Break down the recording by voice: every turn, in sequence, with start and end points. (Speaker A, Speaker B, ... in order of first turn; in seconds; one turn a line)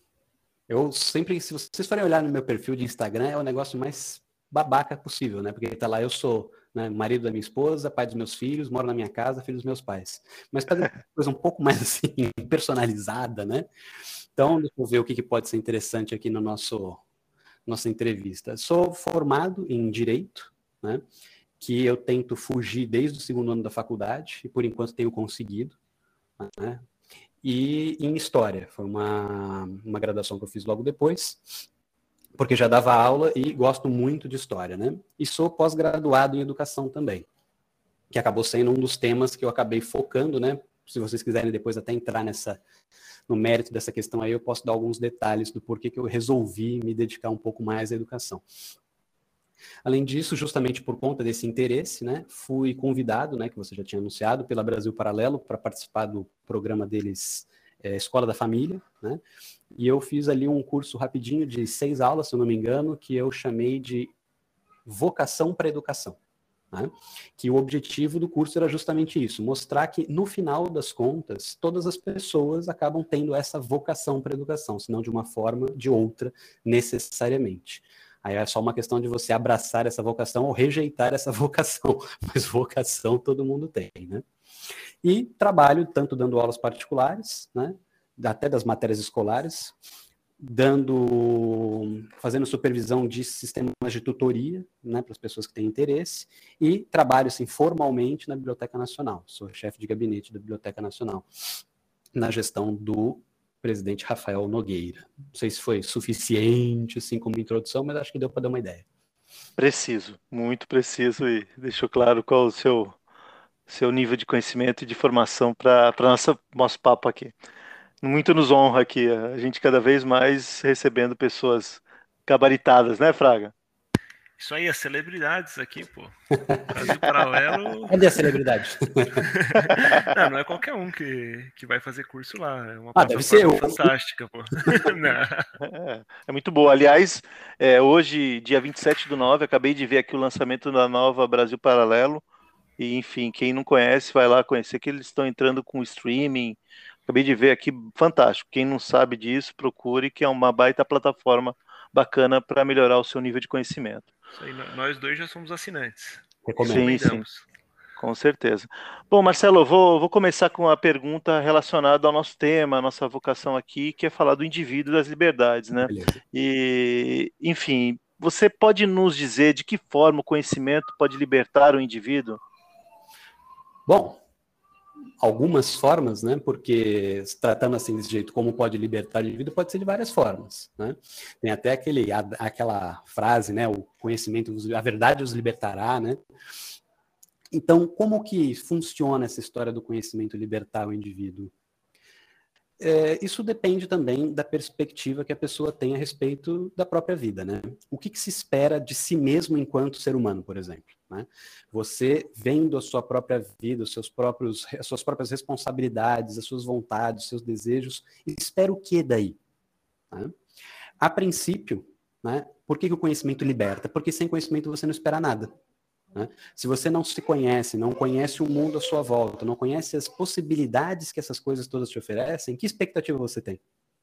Speaker A: 0.7-13.7
Speaker A: 14.3-17.0
Speaker A: 17.7-21.1
Speaker A: 21.6-25.8
Speaker A: 26.4-26.8
Speaker A: 27.4-31.6
Speaker A: 32.4-37.3
Speaker A: 38.1-42.6
Speaker A: 43.3-48.5
Speaker A: 49.9-59.2
Speaker A: 59.7-64.1
Speaker A: 64.8-66.2
Speaker A: 66.7-84.2
Speaker A: 85.0-89.8
Speaker A: 90.4-101.3
Speaker A: 102.2-108.9
Speaker B: 109.6-113.0
Speaker B: 113.7-117.3
Speaker B: 118.0-123.5
Speaker C: 124.4-128.0
Speaker B: 126.9-127.5
Speaker A: 127.9-129.8
Speaker C: 129.2-135.5
Speaker A: 133.0-133.9
Speaker B: 135.6-142.2
Speaker B: 142.8-154.1
Speaker C: 154.3-157.4
Speaker A: 156.4-156.9
Speaker B: 156.7-157.2
Speaker B: 158.0-172.4
Speaker A: 165.8-166.2
Speaker A: 173.9-174.2
Speaker A: 175.2-186.2
Speaker A: 187.5-191.5
Speaker A: 192.8-209.4
Speaker A: 211.0-215.5
Speaker A: 216.1-223.6